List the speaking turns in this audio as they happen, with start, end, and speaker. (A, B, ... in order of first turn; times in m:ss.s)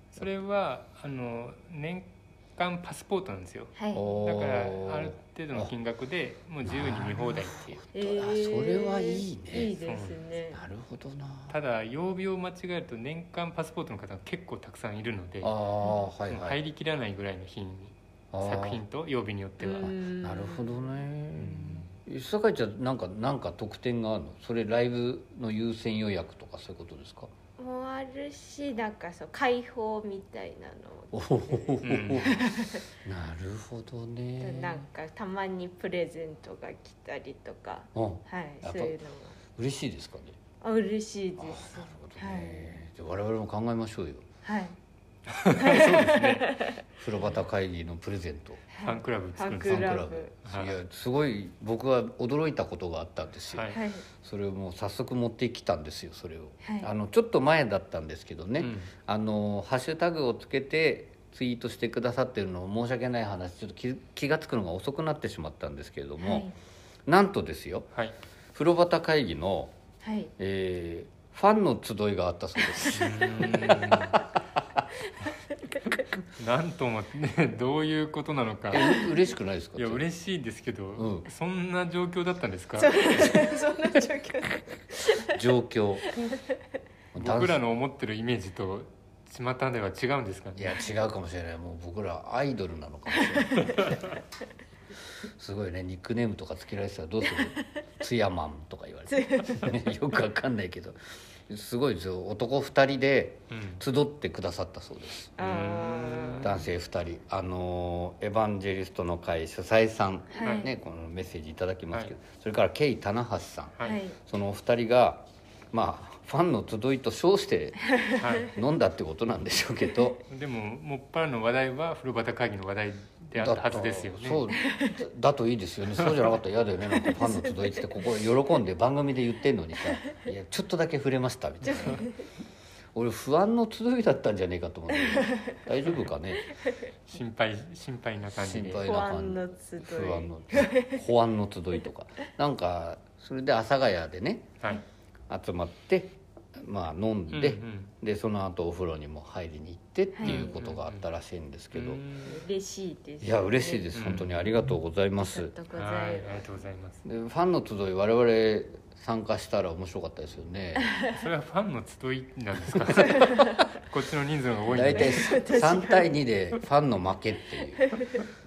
0:00.1-0:07.8 A
0:03.7-0:04.1 B
0:03.9-0:05.7 C
0:06.6-0:09.7 C
0:07.9-0:10.6 B
0:09.8-0:10.2 A
0:10.5-0:11.5 C
0:11.5-0:15.5 A
0:15.4-0:16.6 C
0:16.3-0:20.0 A
0:18.3-0:18.8 C
0:19.6-0:20.9 B
0:19.7-0:27.3 C
0:21.4-0:21.9 A
0:27.6-0:32.8 B
0:31.1-0:34.8 C
0:31.8-0:32.4 A
0:34.4-0:39.4 B
0:37.9-0:38.9 C
0:39.5-0:40.4 C
0:40.6-0:42.7 B
0:41.4-0:44.2 C
0:44.4-0:44.8 B
0:45.3-0:46.5 A
0:45.6-0:46.8 B
0:46.9-0:48.6 C
0:48.7-0:50.3 B
0:48.8-0:50.8 A
0:49.6-1:06.5 C
0:53.5-0:53.8 A
0:53.7-0:54.1 B
0:56.6-0:56.9 B
0:58.6-0:58.9 A
1:06.2-1:06.5 B
1:07.1-1:07.9 C
1:08.5-1:09.7 C
1:10.0-1:10.3 B
1:10.4-1:14.8 C
1:12.9-1:14.2 A
1:16.4-1:19.0 A
1:18.7-1:20.0 C
1:19.8-1:23.3 A
1:21.0-1:21.3 C
1:22.8-1:25.4 B
1:25.2-1:26.0 C
1:26.1-1:26.6 B
1:27.1-1:27.6 C
1:27.2-1:30.7 A
1:30.6-1:34.0 C
1:35.2-1:45.4 C
1:39.1-1:39.7 B
1:43.5-1:43.8 A
1:45.4-1:46.5 B
1:45.4-1:46.5 A
1:46.4-2:00.2 C
1:50.3-1:50.7 B
1:53.8-1:54.2 B
1:57.9-1:58.2 B
1:58.2-1:58.5 A
2:00.3-2:04.4 A
2:03.4-2:12.1 C
2:04.6-2:05.0 B
2:07.1-2:07.7 B
2:11.6-2:12.2 B
2:11.7-2:12.0 A
2:12.9-2:16.5 C
2:15.2-2:15.5 B
2:17.1-2:18.8 A
2:18.3-2:24.6 C
2:18.8-2:21.0 B
2:25.3-2:32.0 C
2:27.3-2:27.9 A
2:30.2-2:30.5 B
2:30.2-2:31.1 A
2:31.7-2:32.4 A
2:32.2-2:33.9 B
2:33.2-2:35.5 C
2:33.9-2:34.4 A
2:35.2-2:36.5 B
2:35.7-2:37.0 A
2:37.0-2:41.0 C
2:41.1-2:45.4 A
2:44.7-2:48.0 C
2:45.0-2:46.2 B
2:47.8-2:48.1 B